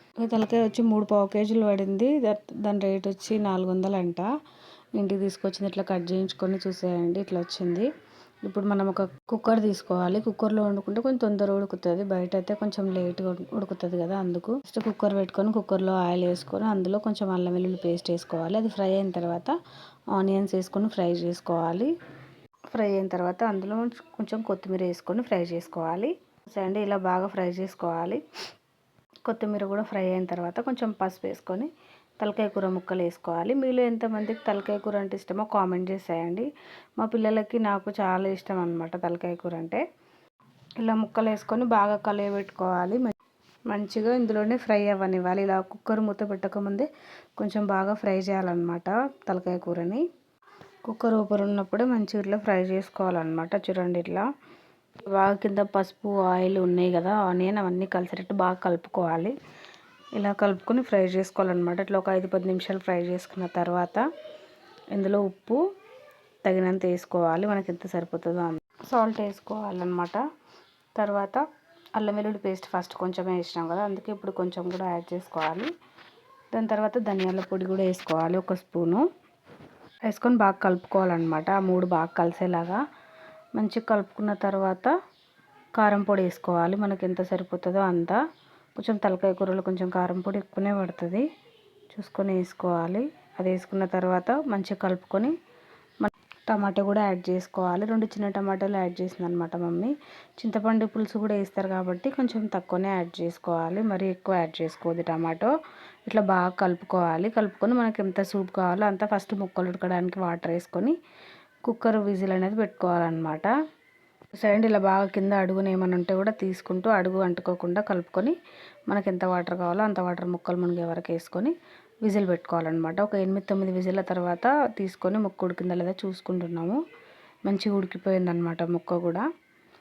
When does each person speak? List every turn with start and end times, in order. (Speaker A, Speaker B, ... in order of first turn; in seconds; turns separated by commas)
Speaker A: 0.2-4.3, Speaker A: 5.0-7.9, Speaker A: 8.5-19.5, Speaker A: 20.2-21.9, Speaker A: 22.7-28.2, Speaker A: 29.3-39.8, Speaker A: 40.8-43.1, Speaker A: 43.7-50.0, Speaker A: 50.9-54.3, Speaker A: 55.1-59.4, Speaker A: 60.2-64.0, Speaker A: 65.0-65.6, Speaker A: 66.5-70.2, Speaker A: 71.0-71.4, Speaker A: 72.0-75.7, Speaker A: 76.5-79.0, Speaker A: 80.1-82.8, Speaker A: 83.6-84.9, Speaker A: 85.8-88.2, Speaker A: 88.8-91.3, Speaker A: 91.9-95.3, Speaker A: 96.0-105.5, Speaker A: 106.1-111.0, Speaker A: 111.7-113.5, Speaker A: 114.4-118.4, Speaker A: 118.9-126.8, Speaker A: 127.5-129.3